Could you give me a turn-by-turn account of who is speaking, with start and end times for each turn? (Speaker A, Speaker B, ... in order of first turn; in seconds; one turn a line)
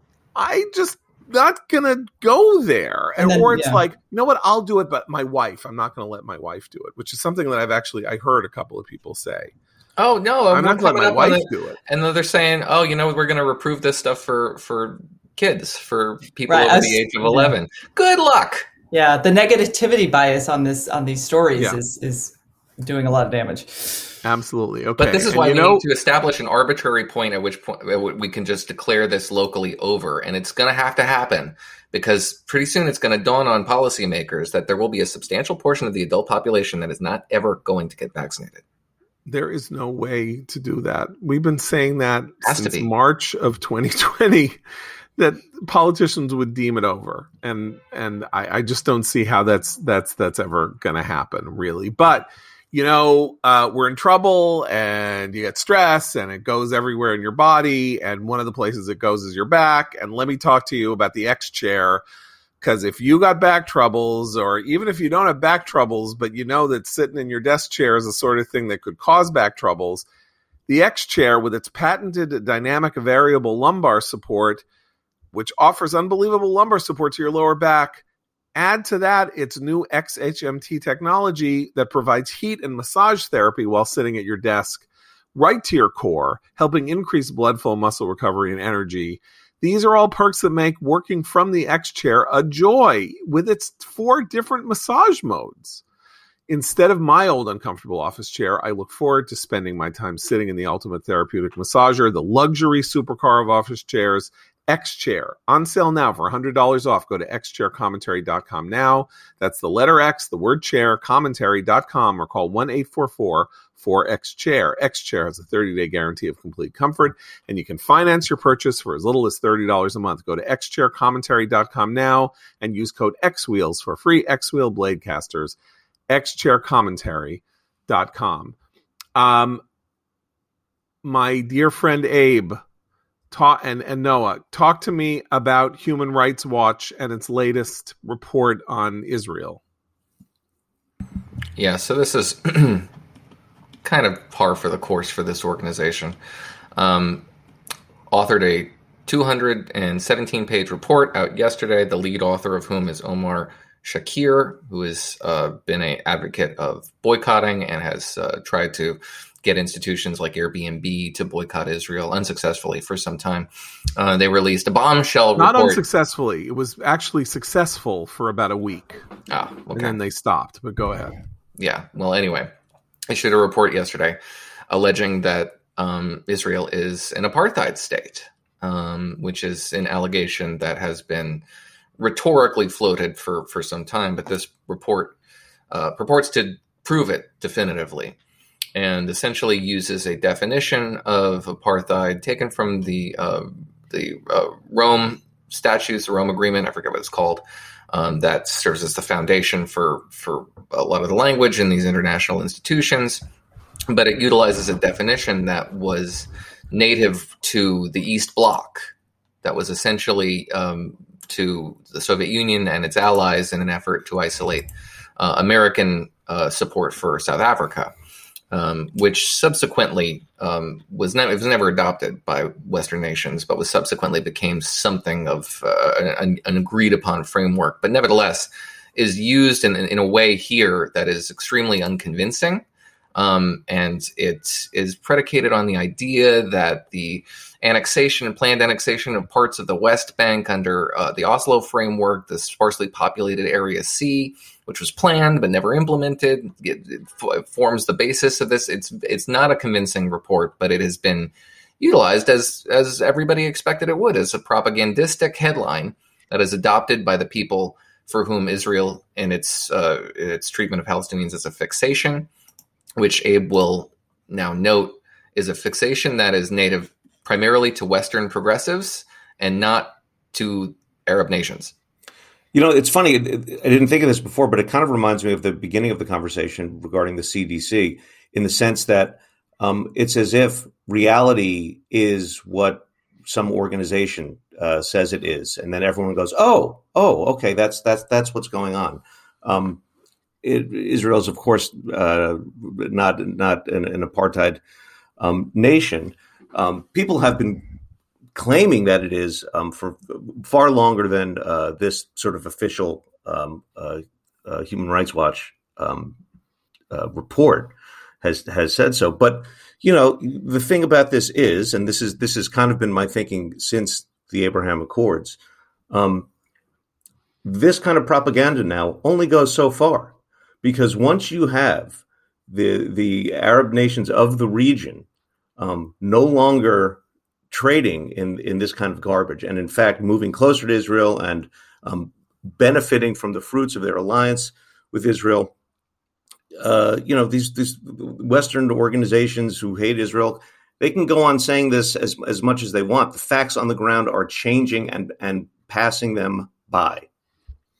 Speaker A: 0.4-9.5
Speaker B: 3.2-3.8
Speaker C: 10.0-18.7
Speaker A: 10.5-11.8
Speaker B: 16.5-17.5
Speaker B: 18.9-24.1
Speaker A: 24.2-25.8
Speaker C: 25.0-38.6
Speaker A: 39.3-44.6
Speaker C: 42.4-42.9
Speaker A: 45.2-62.0
Speaker A: 62.6-70.1
Speaker A: 70.7-74.6
Speaker A: 75.3-78.0
Speaker A: 78.5-95.8
Speaker A: 96.5-125.6
Speaker A: 126.1-128.6
Speaker A: 129.2-129.6
Speaker A: 131.0-132.6
Speaker A: 133.3-139.6
Speaker C: 141.6-142.9
Speaker C: 143.8-146.2
Speaker C: 146.8-147.3
Speaker C: 148.1-165.8
Speaker A: 165.4-169.1
Speaker C: 169.3-170.0
Speaker A: 169.7-171.2
Speaker C: 171.6-172.5
Speaker C: 173.1-174.2
Speaker C: 174.7-181.4
Speaker C: 182.0-185.2
Speaker C: 185.7-188.2
Speaker C: 188.8-203.2
Speaker C: 203.9-208.9
Speaker C: 209.4-217.9
Speaker C: 218.5-232.6
Speaker C: 233.2-262.3
Speaker C: 263.0-271.7
Speaker D: 272.5-289.8
Speaker D: 290.4-294.6
Speaker D: 295.2-297.7
Speaker D: 298.4-306.2
Speaker D: 306.9-315.4
Speaker D: 315.9-316.3
Speaker D: 317.4-325.1
Speaker D: 325.6-335.5
Speaker D: 336.6-347.1